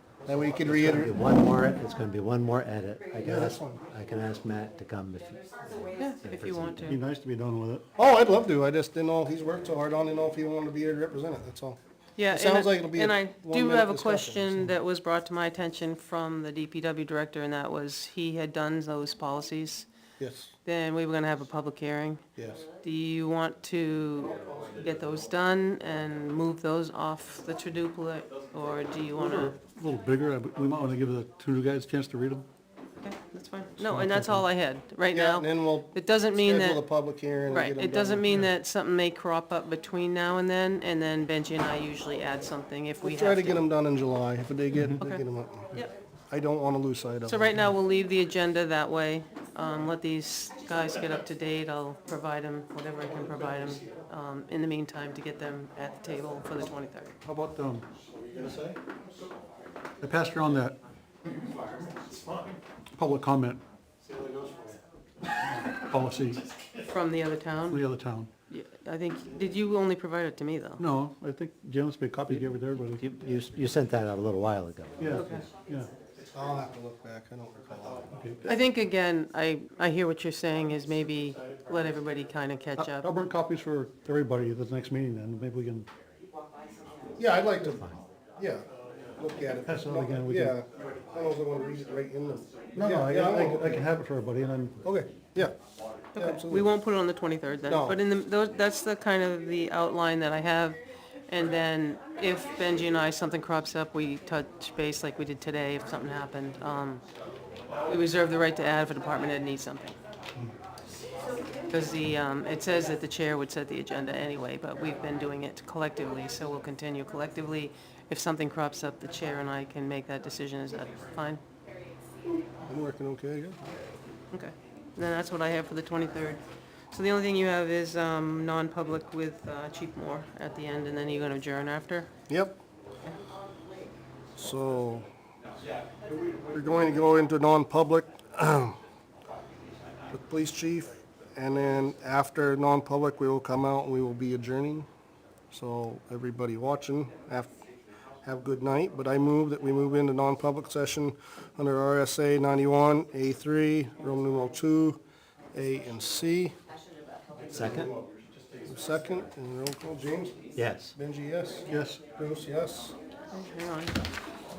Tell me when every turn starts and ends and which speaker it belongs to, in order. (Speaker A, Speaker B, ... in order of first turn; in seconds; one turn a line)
Speaker A: 0.3-1.2
Speaker B: 0.7-6.9
Speaker A: 3.2-3.8
Speaker C: 6.0-7.0
Speaker D: 6.8-7.8
Speaker A: 8.0-11.8
Speaker C: 12.2-19.9
Speaker A: 12.3-14.7
Speaker A: 20.2-20.6
Speaker C: 20.6-22.2
Speaker A: 22.4-22.6
Speaker C: 22.8-29.6
Speaker D: 29.2-32.5
Speaker C: 33.0-36.9
Speaker D: 33.8-34.5
Speaker A: 35.1-38.3
Speaker C: 37.5-43.6
Speaker A: 43.0-45.8
Speaker C: 45.0-45.9
Speaker A: 46.3-47.6
Speaker C: 47.3-57.1
Speaker D: 57.2-58.8
Speaker D: 60.0-60.8
Speaker D: 63.0-64.8
Speaker D: 65.5-66.4
Speaker C: 66.8-67.8
Speaker D: 67.7-68.3
Speaker C: 68.5-70.8
Speaker D: 70.8-73.0
Speaker B: 73.0-75.3
Speaker D: 75.0-75.9
Speaker C: 75.1-75.5
Speaker A: 76.3-78.6
Speaker D: 78.1-78.5
Speaker C: 78.5-83.1
Speaker D: 82.8-85.9
Speaker A: 87.2-88.7
Speaker A: 89.2-93.9
Speaker D: 89.6-90.6
Speaker D: 92.8-94.8
Speaker A: 94.8-95.6
Speaker C: 96.1-107.0
Speaker A: 96.2-96.7
Speaker A: 97.7-98.0
Speaker C: 107.9-110.0
Speaker C: 111.7-121.4
Speaker A: 122.7-123.7
Speaker C: 124.3-132.1
Speaker A: 132.3-132.6
Speaker A: 134.4-135.1
Speaker A: 136.4-138.8
Speaker A: 140.1-144.9
Speaker A: 145.5-147.6
Speaker A: 148.2-155.0
Speaker A: 155.5-156.6
Speaker B: 157.5-157.9
Speaker A: 157.5-158.0
Speaker A: 158.7-160.4
Speaker B: 160.6-160.9
Speaker A: 160.9-162.9
Speaker D: 161.7-162.0
Speaker C: 163.3-164.0